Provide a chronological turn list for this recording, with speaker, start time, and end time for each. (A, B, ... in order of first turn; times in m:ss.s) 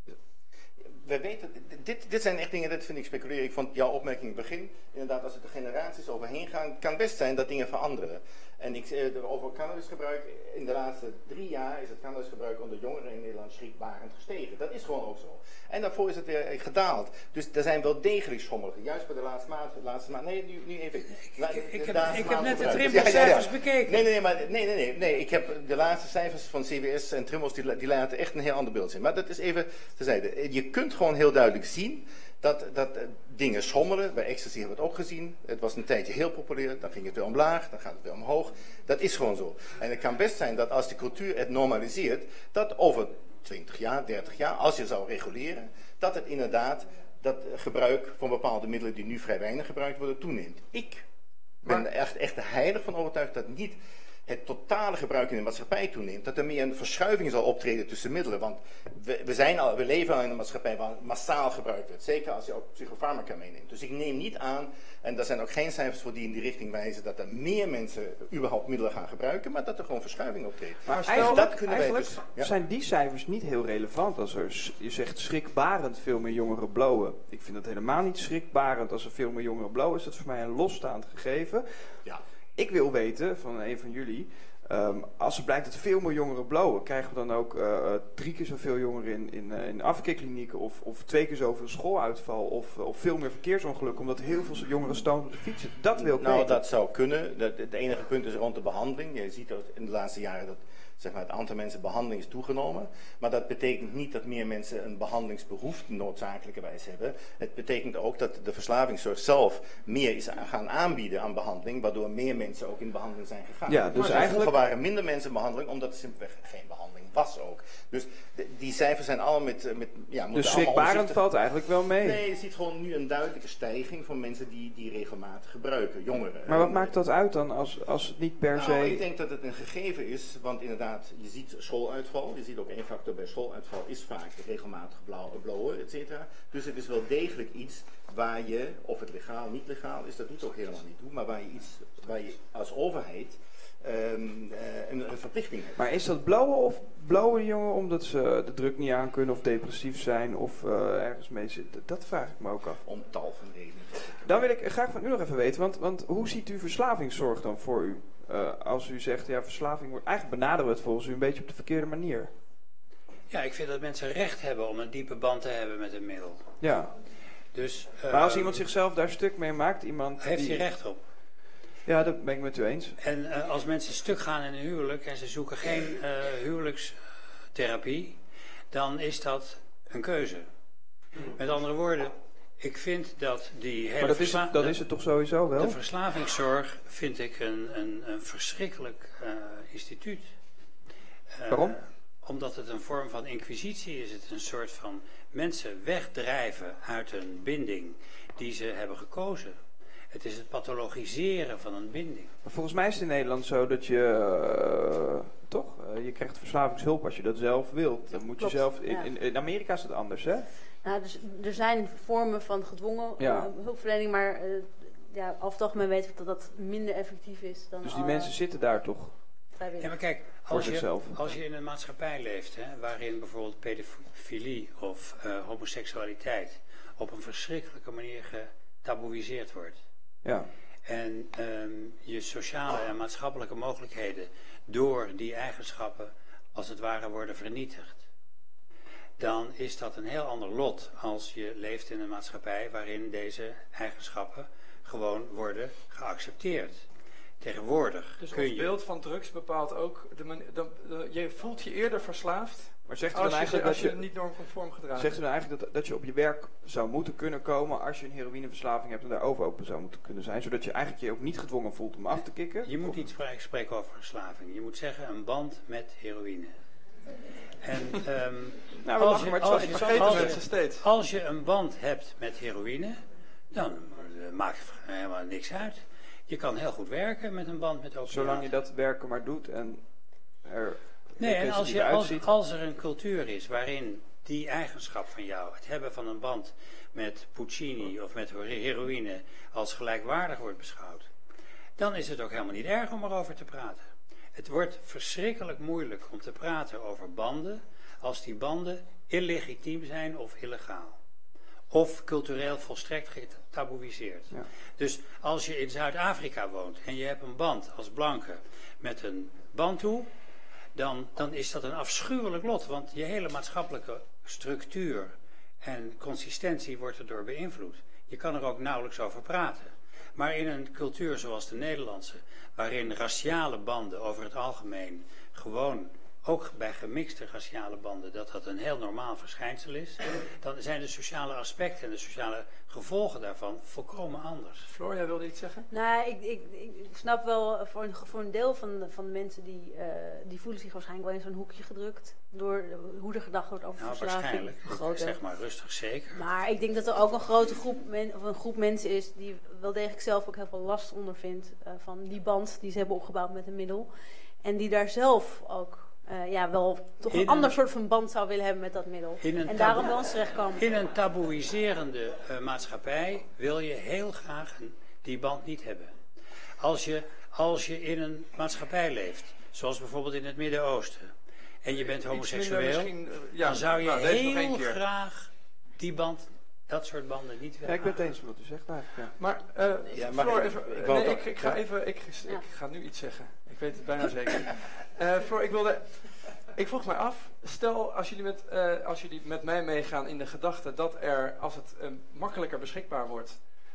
0:01.0-0:51.0 A
0:21.3-0:24.1 B
0:51.6-0:53.8 A
0:54.3-1:12.5 A
1:10.8-1:22.0 C
1:11.1-1:11.4 D
1:22.6-1:36.6 C
1:36.0-2:01.2 A
1:53.7-1:54.5 C
1:54.0-1:54.3 D
2:00.3-2:02.2 C
2:02.0-2:06.9 A
2:06.5-2:09.0 C
2:08.6-2:25.8 A
2:25.8-2:32.8 C
2:32.8-2:34.4 A
2:34.2-2:42.3 C
2:43.3-2:46.4 B
2:46.6-2:46.9 C
2:47.5-2:48.6 B
2:48.1-2:50.7 C
2:50.2-2:51.0 B
2:51.9-2:53.0 C
2:53.0-2:57.0 B
2:57.5-2:58.2 B
2:58.7-3:00.5 B
3:01.2-3:04.8 B
3:04.0-3:05.8 C
3:05.5-3:10.3 B
3:11.4-3:19.6 B
3:11.5-3:11.8 C
3:20.1-3:22.3 B
3:22.4-3:30.5 C
3:28.4-3:29.1 E
3:30.8-3:38.3 E
3:33.2-3:33.5 C
3:37.8-3:39.2 C
3:39.6-3:39.9 E
3:39.8-3:49.8 B
3:40.5-3:41.2 C
3:50.2-3:50.5 C
3:50.9-3:58.0 B
3:59.2-4:06.8 B
4:07.4-4:08.8 B
4:08.2-4:15.2 D
4:12.9-4:14.1 C
4:15.0-4:23.0 C
4:22.6-4:26.5 B
4:27.6-4:33.0 B
4:28.8-4:30.4 C
4:29.6-4:30.9 D
4:33.5-4:38.5 B
4:38.1-4:39.8 C
4:40.4-4:42.3 C
4:41.2-4:51.1 B
4:51.8-5:01.0 B
5:01.7-5:10.1 B
5:10.8-5:34.7 B
5:34.7-5:35.7 D
5:35.7-5:45.2 E
5:43.8-5:46.2 B
5:46.1-5:53.9 E
5:54.4-6:00.6 E
5:57.1-5:57.5 B
5:59.2-6:05.9 B
6:06.6-6:11.1 B
6:11.6-6:18.0 B
6:11.9-6:14.8 D
6:17.6-6:19.2 C
6:19.2-6:33.4 D
6:19.9-6:21.6 A